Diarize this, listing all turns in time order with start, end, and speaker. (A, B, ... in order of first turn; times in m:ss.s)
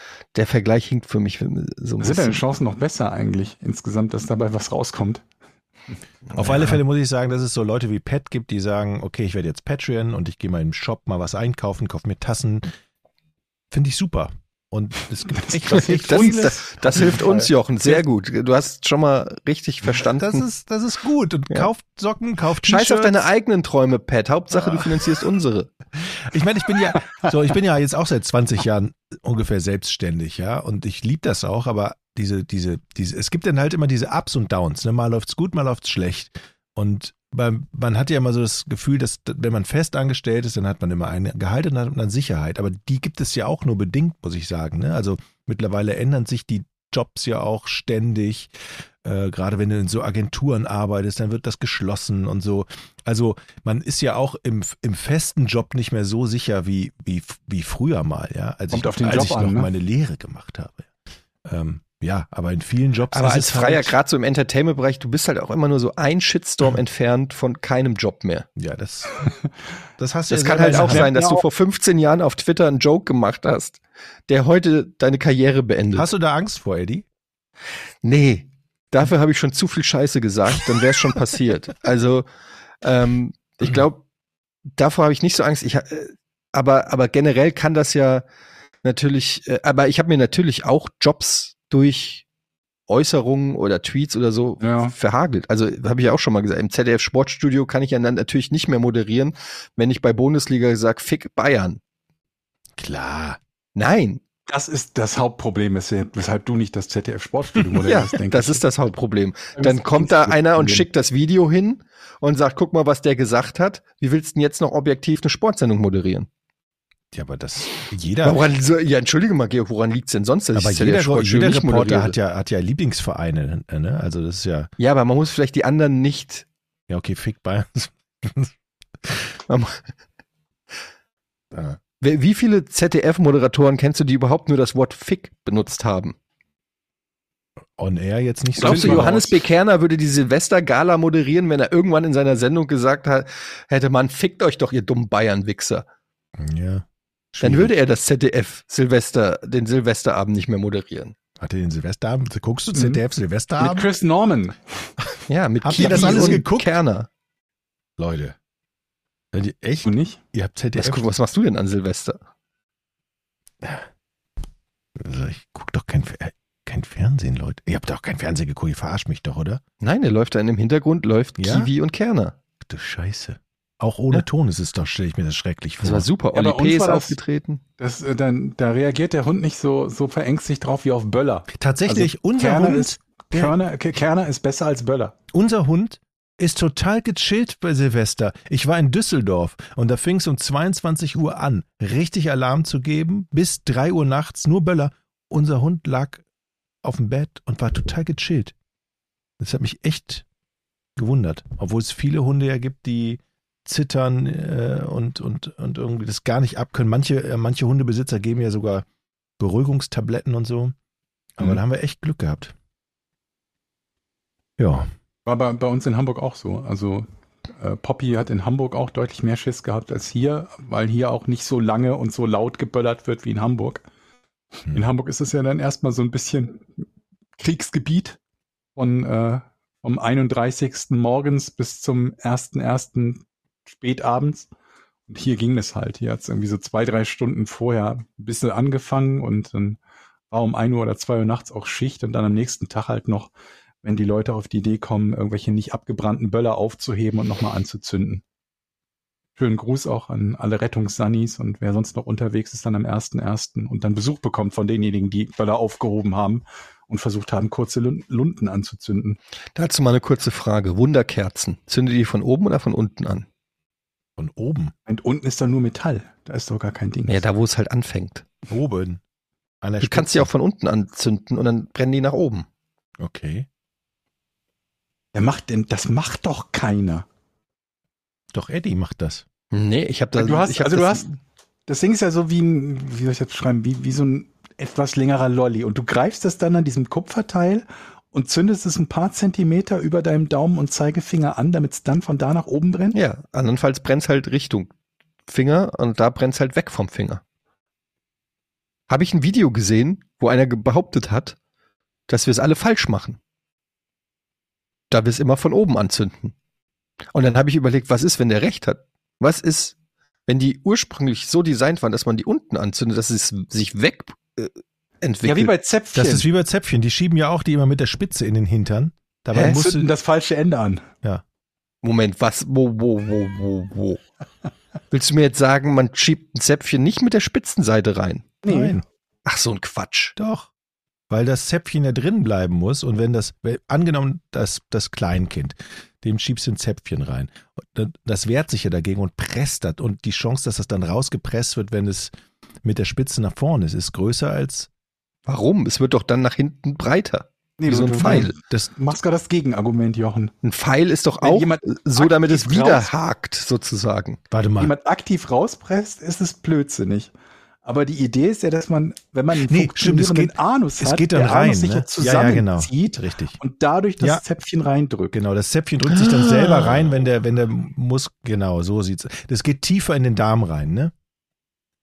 0:00.3-0:02.4 A
0:02.0-0:05.2 B
0:06.3-0:06.7 A
0:06.3-0:12.7 C
0:13.7-0:17.1 C
0:15.5-0:17.5 B
0:15.7-0:20.4 A
0:20.2-0:23.2 C
0:22.6-0:25.7 A
0:26.3-1:00.9 C
0:58.7-0:59.7 B
1:01.4-1:04.0 C
1:03.1-1:08.5 A
1:08.6-1:09.3 C
1:10.0-1:11.1 C
1:10.3-1:16.1 A
1:10.6-1:11.4 B
1:15.9-1:17.0 C
1:18.0-1:22.3 A
1:22.8-1:24.0 A
1:24.7-1:28.2 A
1:28.8-1:32.2 A
1:32.9-1:41.8 A
1:34.6-1:34.9 B
1:42.8-1:43.4 C
1:43.7-1:44.2 A
1:44.5-1:48.6 B
1:47.8-1:56.3 A
1:49.6-1:50.9 B
1:57.1-1:58.4 C
1:58.2-2:02.2 A
2:00.5-2:04.7 C
2:04.8-2:06.4 A
2:06.9-2:09.3 C
2:09.5-2:09.8 A
2:11.5-2:11.8 C
2:12.0-2:16.1 A
2:17.8-2:19.3 C
2:18.6-2:25.8 A
2:18.6-2:19.2 B
2:26.4-2:27.7 C
2:27.4-2:31.2 A
2:31.4-2:33.9 C
2:32.7-2:33.0 B
2:33.6-2:34.9 B
2:35.3-2:37.1 A
2:35.6-2:36.7 C
2:35.8-2:36.4 B
2:38.0-2:38.4 C
2:39.3-2:41.0 C
2:39.8-2:40.2 B
2:40.8-2:42.2 A
2:45.0-2:49.6 C
2:49.8-2:52.3 A
2:51.4-2:51.7 C
2:52.6-2:56.1 C
2:55.8-2:57.6 A
2:56.3-2:57.2 B
2:57.8-3:05.2 B
3:01.5-3:03.5 C
3:05.3-3:16.2 C
3:16.8-3:18.5 C
3:19.4-3:20.2 C
3:21.0-3:28.8 C
3:29.4-3:30.7 C
3:31.4-3:32.5 C
3:34.6-3:34.9 C
3:35.2-3:43.8 B
3:44.7-3:46.7 B
3:47.4-3:48.2 B
3:48.8-3:54.5 B
3:55.1-3:59.8 B
4:00.3-4:03.3 B
4:03.8-4:08.2 B
4:09.4-4:19.2 B
4:19.6-4:23.3 A
4:24.2-4:24.7 C
4:24.8-4:27.2 B
4:27.1-4:28.3 A
4:28.5-4:29.0 C
4:29.6-4:30.3 C
4:29.8-4:32.5 A
4:33.0-4:33.5 C
4:35.1-4:37.1 B
4:38.3-4:39.2 C
4:39.5-4:41.1 A
4:40.2-4:41.0 B
4:41.7-4:53.0 B
4:52.9-4:54.7 A
4:55.3-4:57.2 A
4:58.9-5:01.4 A
5:02.1-5:03.2 A
5:04.9-5:06.3 A
5:07.1-5:09.7 A
5:10.2-5:15.5 A
5:15.2-5:16.2 B
5:15.9-5:19.9 C
5:19.3-5:19.7 A
5:19.4-5:20.9 B
5:21.8-5:24.0 A
5:24.9-5:28.4 A
5:28.4-5:28.8 B
5:28.5-5:28.8 C
5:29.2-5:30.1 A
5:30.2-5:30.5 C
5:31.1-5:42.1 C
5:42.6-5:44.7 C
5:45.3-5:48.3 A
5:47.6-5:50.3 B
5:48.0-5:48.8 C
5:50.4-5:54.2 A
5:51.2-5:52.9 B
5:54.3-5:54.7 C
5:54.6-5:57.1 B
5:57.6-6:05.2 B
5:59.4-6:03.4 C
6:05.1-6:10.9 C
6:06.2-6:06.6 A